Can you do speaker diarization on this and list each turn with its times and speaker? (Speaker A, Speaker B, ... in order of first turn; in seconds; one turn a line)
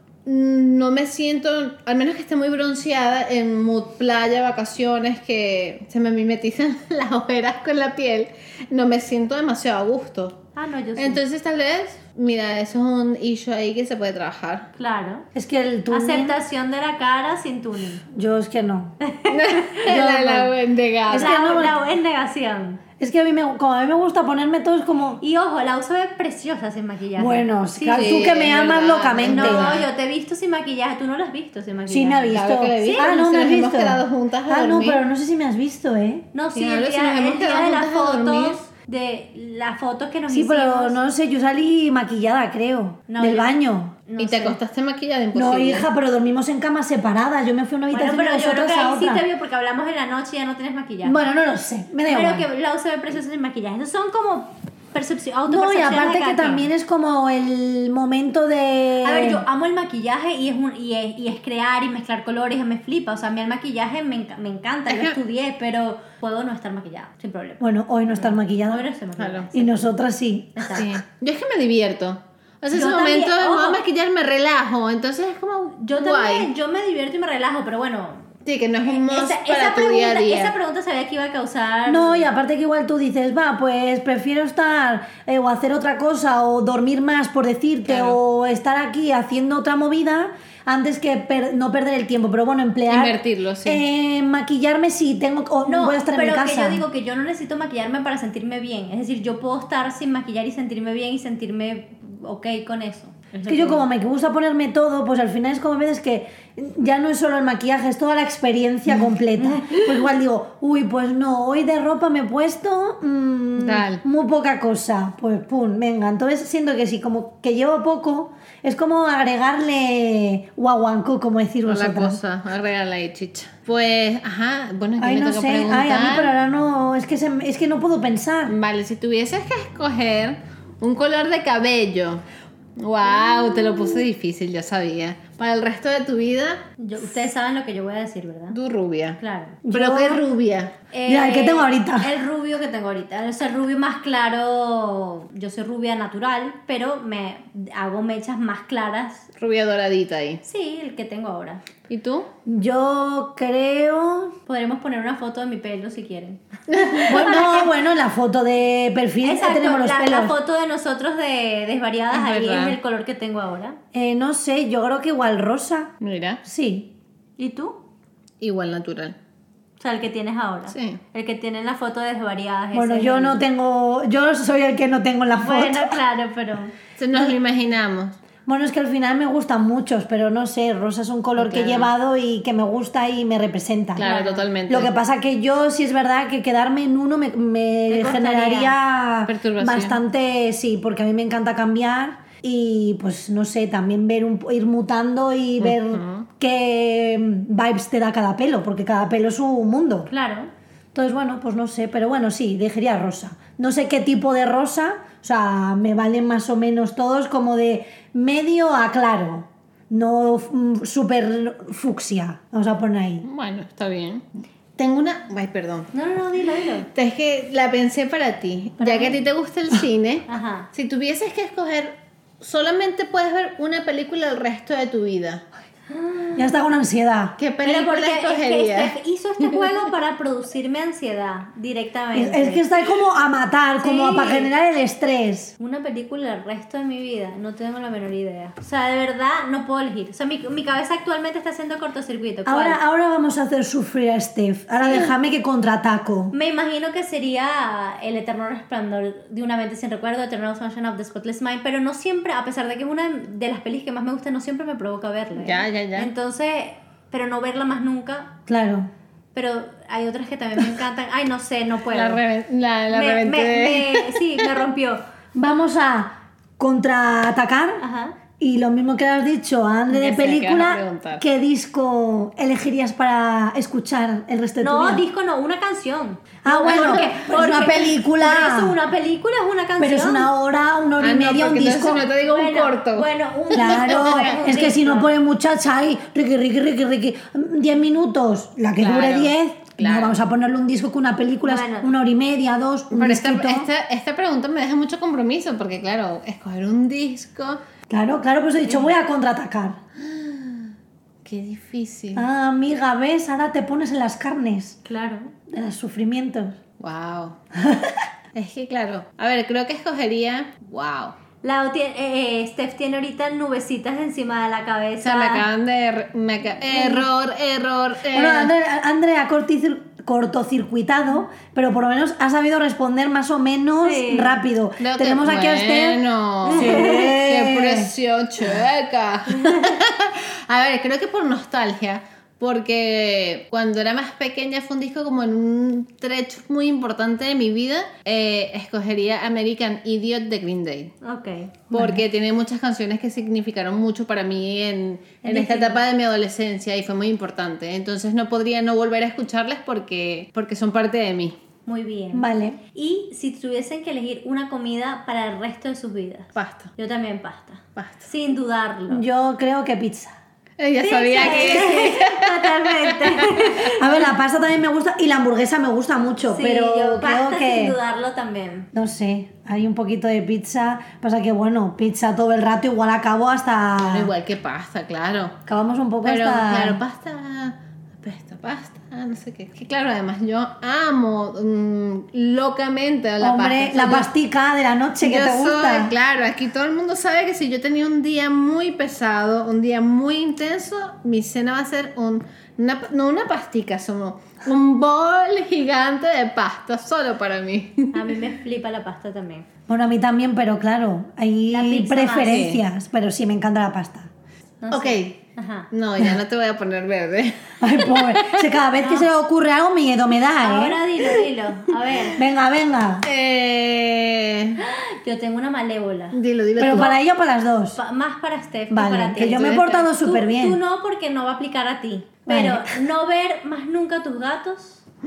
Speaker A: 0.2-10.4
Speaker B: 10.6-11.2
Speaker A: 10.9-14.7
Speaker B: 14.8-15.2
Speaker C: 15.3-16.4
Speaker B: 15.9-18.0
Speaker C: 18.1-18.9
Speaker B: 19.0-19.8
Speaker A: 19.3-21.3
Speaker C: 19.9-20.5
Speaker C: 21.1-21.8
Speaker B: 21.1-22.8
Speaker C: 23.0-25.2
Speaker B: 25.2-28.2
Speaker C: 27.1-29.8
Speaker A: 27.9-29.9
Speaker B: 29.2-33.1
Speaker C: 31.9-36.2
Speaker A: 32.3-35.0
Speaker B: 36.3-41.0
Speaker A: 36.5-38.6
Speaker C: 40.3-43.9
Speaker B: 43.1-43.5
Speaker B: 44.1-44.6
Speaker A: 44.2-45.9
Speaker C: 45.3-49.2
Speaker B: 47.9-51.2
Speaker C: 51.0-52.5
Speaker B: 52.1-56.7
Speaker C: 55.5-59.4
Speaker B: 59.0-69.9
Speaker A: 64.9-65.2
Speaker C: 67.6-68.8
Speaker A: 69.2-69.5
Speaker C: 69.5-70.8
Speaker B: 70.5-70.9
Speaker A: 70.7-76.5
Speaker B: 72.7-73.8
Speaker B: 75.8-78.3
Speaker A: 78.4-80.5
Speaker B: 78.8-82.3
Speaker C: 81.8-96.8
Speaker A: 87.8-88.2
Speaker A: 92.9-93.8
Speaker B: 95.6-103.8
Speaker C: 103.5-122.2
Speaker B: 109.4-109.8
Speaker A: 113.6-114.0
Speaker A: 121.7-126.3
Speaker C: 125.0-128.6
Speaker A: 128.5-132.2
Speaker A: 132.8-136.6
Speaker B: 136.8-138.6
Speaker A: 138.5-139.2
Speaker B: 139.2-139.6
Speaker C: 139.6-140.2
Speaker A: 139.7-140.7
Speaker B: 140.9-149.3
Speaker C: 141.1-142.1
Speaker A: 149.4-150.4
Speaker B: 150.4-151.6
Speaker A: 151.9-152.3
Speaker C: 152.4-154.3
Speaker B: 154.5-157.7
Speaker A: 156.7-157.2
Speaker C: 157.1-160.3
Speaker B: 159.2-163.8
Speaker A: 162.1-162.8
Speaker C: 163.9-165.9
Speaker A: 166.0-166.4
Speaker C: 166.4-166.9
Speaker B: 167.4-167.8
Speaker A: 168.4-169.2
Speaker B: 169.8-173.4
Speaker A: 170.7-171.0
Speaker C: 172.7-176.0
Speaker B: 175.4-176.7
Speaker A: 177.0-178.2
Speaker C: 178.4-184.1
Speaker A: 181.4-181.9
Speaker A: 183.9-184.9
Speaker B: 184.0-184.4
Speaker C: 184.7-200.1
Speaker B: 187.9-188.7
Speaker A: 189.3-190.0
Speaker A: 195.6-196.2
Speaker B: 200.1-200.5
Speaker C: 200.9-213.2
Speaker A: 213.2-214.2
Speaker A: 214.8-215.9
Speaker B: 215.9-216.9
Speaker A: 216.9-225.4
Speaker B: 218.8-219.2
Speaker B: 220.3-220.7
Speaker B: 225.9-226.4
Speaker C: 226.3-227.4
Speaker A: 227.4-229.7
Speaker B: 227.6-232.6
Speaker C: 232.1-235.5
Speaker B: 233.8-234.5
Speaker B: 235.6-242.8
Speaker C: 242.4-246.3
Speaker B: 244.8-245.1
Speaker B: 246.3-258.3
Speaker A: 255.4-256.1
Speaker C: 258.5-258.9
Speaker B: 259.3-262.2
Speaker A: 261.9-264.6
Speaker B: 262.9-265.0
Speaker C: 265.3-267.8
Speaker B: 267.8-268.1
Speaker C: 268.4-275.0
Speaker A: 269.9-271.2
Speaker B: 274.6-280.3
Speaker C: 276.4-278.8
Speaker A: 276.6-277.2
Speaker C: 279.8-282.1
Speaker A: 281.0-284.5
Speaker B: 282.3-285.1
Speaker C: 283.5-293.7
Speaker A: 288.8-290.1
Speaker B: 291.4-291.9
Speaker A: 292.9-297.6
Speaker C: 297.9-299.8
Speaker A: 300.0-300.7
Speaker A: 301.2-302.2
Speaker C: 302.1-304.8
Speaker B: 304.8-305.3
Speaker C: 305.5-306.6
Speaker A: 306.8-307.4
Speaker C: 307.6-308.1
Speaker A: 308.3-311.1
Speaker B: 311.4-315.4
Speaker A: 315.0-318.5
Speaker C: 318.1-327.9
Speaker B: 323.8-324.4
Speaker A: 324.8-340.9
Speaker B: 326.5-327.1
Speaker B: 329.3-329.8
Speaker B: 341.0-341.6
Speaker A: 341.7-351.4
Speaker C: 341.7-342.0
Speaker B: 345.3-345.6
Speaker B: 351.6-359.0
Speaker C: 352.1-352.6
Speaker A: 356.3-356.7
Speaker A: 357.8-358.1
Speaker C: 358.9-360.2
Speaker A: 360.6-363.5
Speaker B: 360.8-364.0
Speaker C: 361.2-361.8
Speaker C: 363.8-367.8
Speaker B: 366.3-368.7
Speaker C: 368.7-374.1
Speaker A: 373.8-375.4
Speaker C: 375.5-376.8
Speaker A: 376.0-384.1
Speaker C: 383.2-385.9
Speaker A: 385.0-398.1
Speaker B: 397.9-399.4
Speaker C: 399.7-404.1
Speaker B: 401.5-402.5
Speaker A: 402.2-402.6
Speaker B: 404.6-405.7
Speaker A: 404.7-405.2
Speaker A: 405.7-408.5
Speaker C: 407.6-410.8
Speaker B: 408.8-409.1
Speaker B: 410.4-412.2
Speaker C: 412.1-413.1
Speaker A: 413.0-414.6
Speaker B: 414.6-416.9
Speaker A: 416.1-417.0
Speaker C: 416.6-417.8
Speaker B: 417.8-424.8
Speaker C: 418.7-420.6
Speaker A: 419.2-419.9
Speaker C: 422.3-422.8